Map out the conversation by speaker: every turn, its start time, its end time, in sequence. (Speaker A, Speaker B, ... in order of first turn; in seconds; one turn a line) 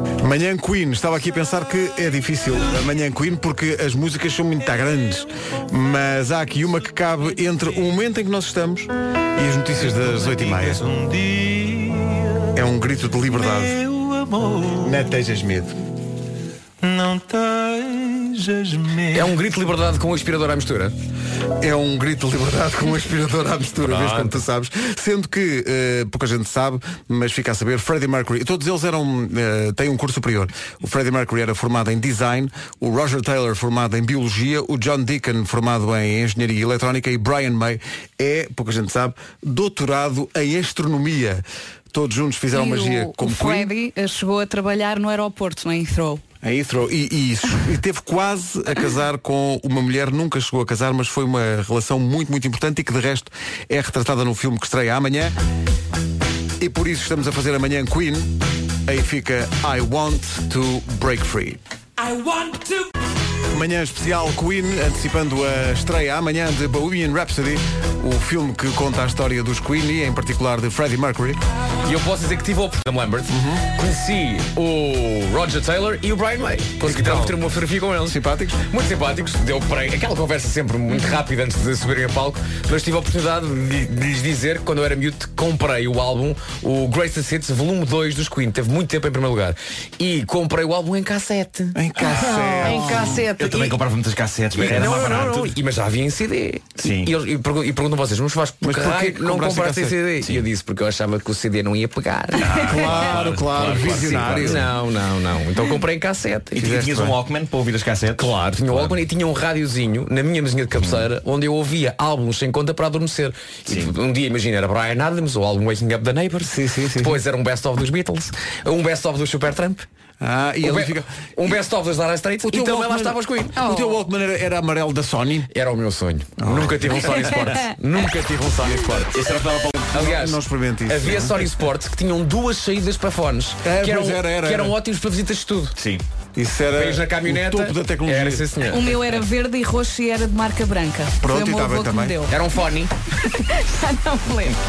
Speaker A: 0.2-10.8
Speaker B: 10.9-11.6
Speaker A: 12.5-13.8
Speaker B: 14.1-14.5
Speaker A: 14.7-15.7
Speaker B: 16.9-17.9
Speaker C: 19.1-20.9
Speaker A: 21.6-43.7
Speaker C: 23.8-24.4
Speaker D: 42.5-46.2
Speaker A: 46.4-55.3
Speaker A: 56.6-58.3
Speaker A: 58.9-61.6
Speaker A: 63.5-71.4
Speaker C: 71.8-93.8
Speaker A: 73.3-73.7
Speaker A: 76.8-77.4
Speaker A: 78.0-78.6
Speaker A: 91.7-93.2
Speaker E: 92.2-95.5
Speaker C: 94.5-106.7
Speaker A: 94.7-95.1
Speaker E: 96.8-97.1
Speaker A: 98.6-100.0
Speaker E: 102.4-104.7
Speaker A: 102.6-104.7
Speaker E: 106.5-109.0
Speaker A: 106.5-107.2
Speaker C: 108.2-119.8
Speaker E: 110.7-111.1
Speaker A: 116.4-117.2
Speaker A: 120.2-121.5
Speaker C: 120.6-123.6
Speaker A: 122.4-125.5
Speaker D: 123.6-124.0
Speaker C: 125.5-129.1
Speaker A: 126.4-127.7
Speaker E: 129.1-130.0
Speaker C: 129.9-135.8
Speaker A: 129.9-131.4
Speaker A: 133.6-134.7
Speaker E: 135.8-136.0
Speaker A: 136.3-138.5
Speaker C: 136.7-139.0
Speaker D: 138.7-142.3
Speaker A: 141.2-142.2
Speaker C: 142.3-142.9
Speaker D: 143.2-144.6